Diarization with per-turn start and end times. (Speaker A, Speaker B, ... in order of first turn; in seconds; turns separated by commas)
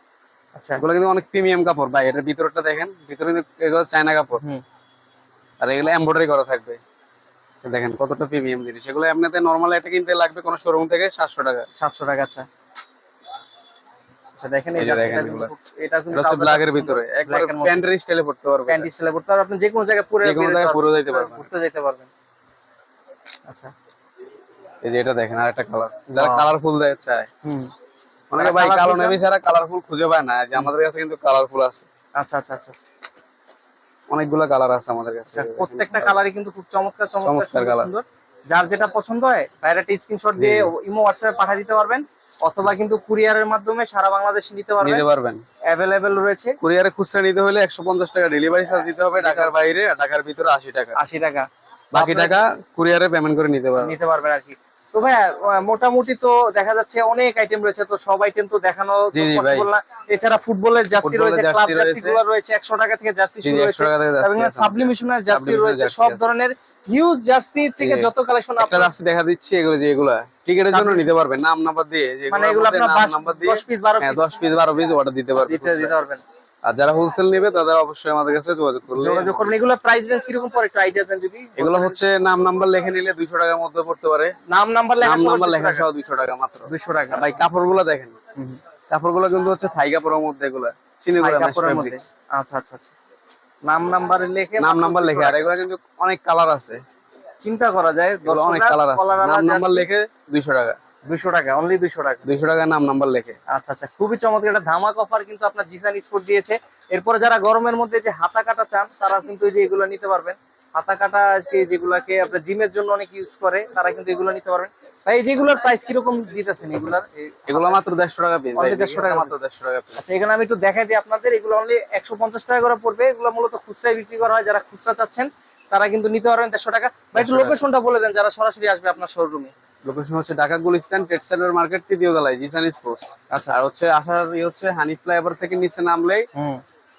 Speaker A: 0.6-0.8, Speaker B: 0.8-4.4, Speaker B: 5.6-6.8, Speaker B: 7.6-11.7, Speaker A: 11.8-12.4, Speaker A: 14.3-17.8, Speaker B: 14.8-15.5, Speaker B: 16.1-18.9, Speaker A: 18.7-22.1, Speaker B: 20.2-21.4, Speaker A: 23.5-23.7, Speaker B: 24.8-27.3, Speaker A: 26.1-26.5, Speaker A: 27.4-27.7, Speaker B: 28.3-31.9, Speaker A: 28.4-29.2, Speaker A: 32.1-32.8, Speaker B: 34.1-36.2, Speaker A: 35.3-45.0, Speaker B: 37.2-37.9, Speaker B: 40.4-40.7, Speaker B: 44.8-45.4, Speaker A: 45.7-46.6, Speaker B: 46.6-51.0, Speaker A: 49.2-49.5, Speaker A: 51.0-52.4, Speaker B: 51.9-53.9, Speaker A: 53.8-68.9, Speaker B: 59.1-59.7, Speaker B: 61.0-62.2, Speaker B: 63.4-66.2, Speaker B: 67.8-75.9, Speaker A: 70.7-71.1, Speaker A: 72.3-74.4, Speaker A: 75.4-76.2, Speaker B: 76.6-79.5, Speaker A: 78.9-82.0, Speaker B: 81.6-84.3, Speaker A: 84.5-85.9, Speaker B: 85.0-88.1, Speaker A: 86.7-87.4, Speaker B: 88.9-92.0, Speaker A: 91.2-92.9, Speaker A: 93.7-95.5, Speaker B: 94.6-96.8, Speaker A: 97.4-99.9, Speaker B: 98.2-100.8, Speaker A: 101.1-102.3, Speaker B: 102.2-103.4, Speaker A: 103.5-117.8, Speaker B: 117.5-120.0, Speaker A: 118.5-119.4, Speaker A: 120.0-129.5, Speaker B: 127.2-127.5, Speaker B: 129.8-136.2, Speaker A: 136.3-136.6